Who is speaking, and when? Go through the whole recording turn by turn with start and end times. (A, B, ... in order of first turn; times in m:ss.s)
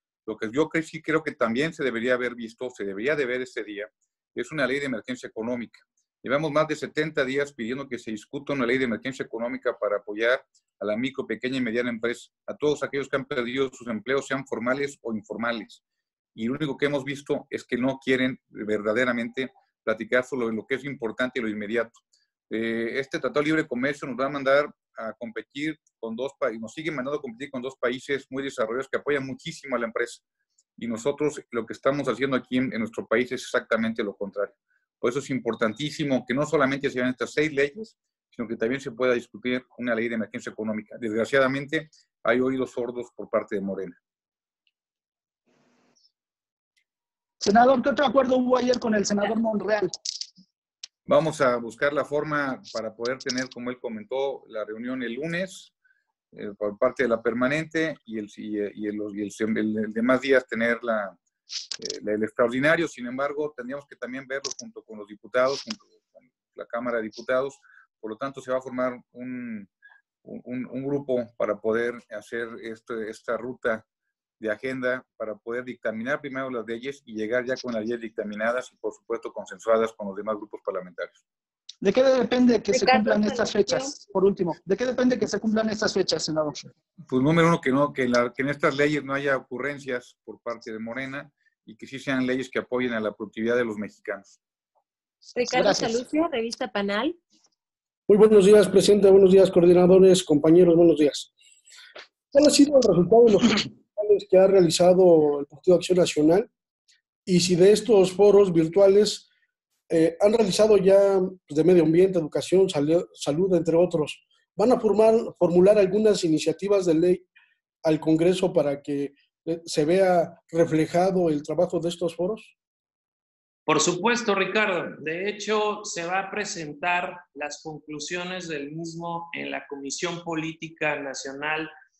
0:00.2-0:15.8 A
0:16.3-0:30.2 A
0:30.8-0:44.0 A
0:47.4-0:49.9 B
0:51.0-0:55.7 A
0:56.3-1:01.2 A
1:01.8-1:09.7 A
1:10.2-1:13.8 A
1:14.4-1:21.2 A
1:21.8-1:26.7 B
1:22.7-1:23.9 C
1:27.1-1:34.4 A
1:35.3-1:37.2 C
1:35.5-1:36.0 B
1:38.1-1:39.3 D
1:39.8-1:40.6 D
1:42.4-1:43.3 D
1:44.2-1:46.4 D
1:47.3-1:49.2 D
1:50.0-1:57.0 D
1:57.9-1:59.0 D
1:59.7-2:02.4 D
2:03.7-2:11.7 E